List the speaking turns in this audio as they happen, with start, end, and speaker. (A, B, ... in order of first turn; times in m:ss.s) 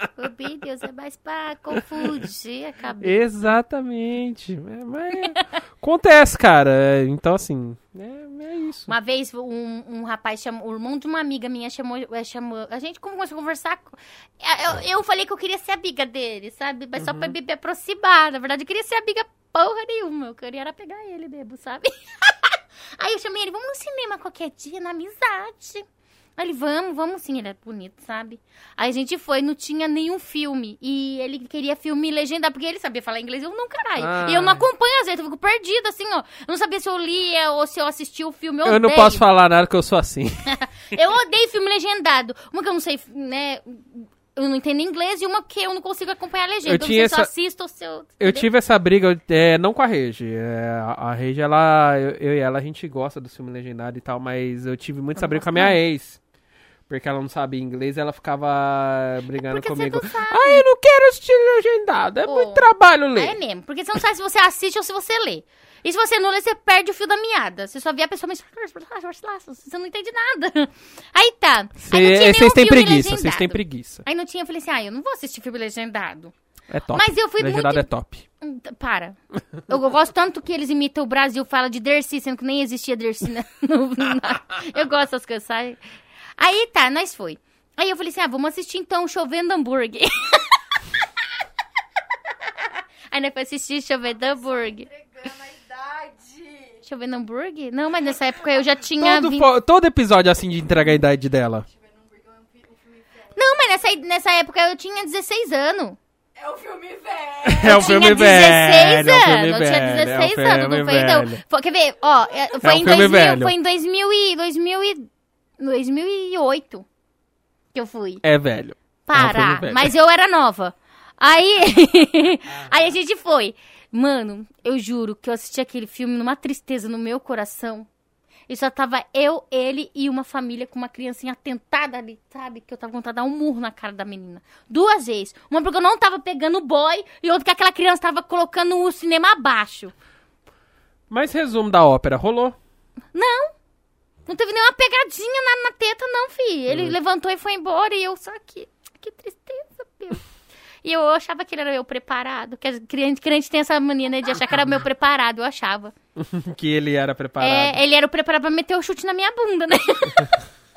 0:00.2-0:03.2 A
0:03.0-0:08.9 B
0:08.9-0:25.8 A
0:17.0-0:17.3 B
0:26.4-0:39.2 A
0:34.0-0:34.6 B
0:38.6-0:40.5 B
0:40.5-0:48.5 A
0:46.6-0:47.3 B
0:48.2-0:56.2 B
0:55.2-0:55.8 A
0:56.9-1:03.4 B
0:59.4-1:00.6 A
1:02.2-1:16.3 A
1:11.8-1:14.0 B
1:16.7-1:18.2 B
1:16.9-1:17.9 A
1:18.4-1:19.2 A
1:19.7-1:25.8 A
1:26.4-1:30.6 A
1:33.1-1:34.9 A
1:34.2-1:36.8 C
1:36.8-1:39.5 A
1:39.0-1:41.6 B
1:41.7-1:43.5 C
1:43.3-1:46.0 A
1:46.4-1:47.9 C
1:47.4-1:51.4 B
1:47.6-1:55.1 A
1:52.6-1:53.5 B
1:55.6-1:56.8 A
1:57.7-1:58.2 A
1:58.2-1:59.9 B
1:59.0-2:07.9 A
2:08.5-2:19.9 A
2:21.1-2:22.6 B
2:23.1-2:23.5 A
2:24.3-2:30.2 A
2:26.7-2:26.9 B
2:30.8-2:35.9 A
2:36.2-2:37.8 B
2:37.4-2:40.3 A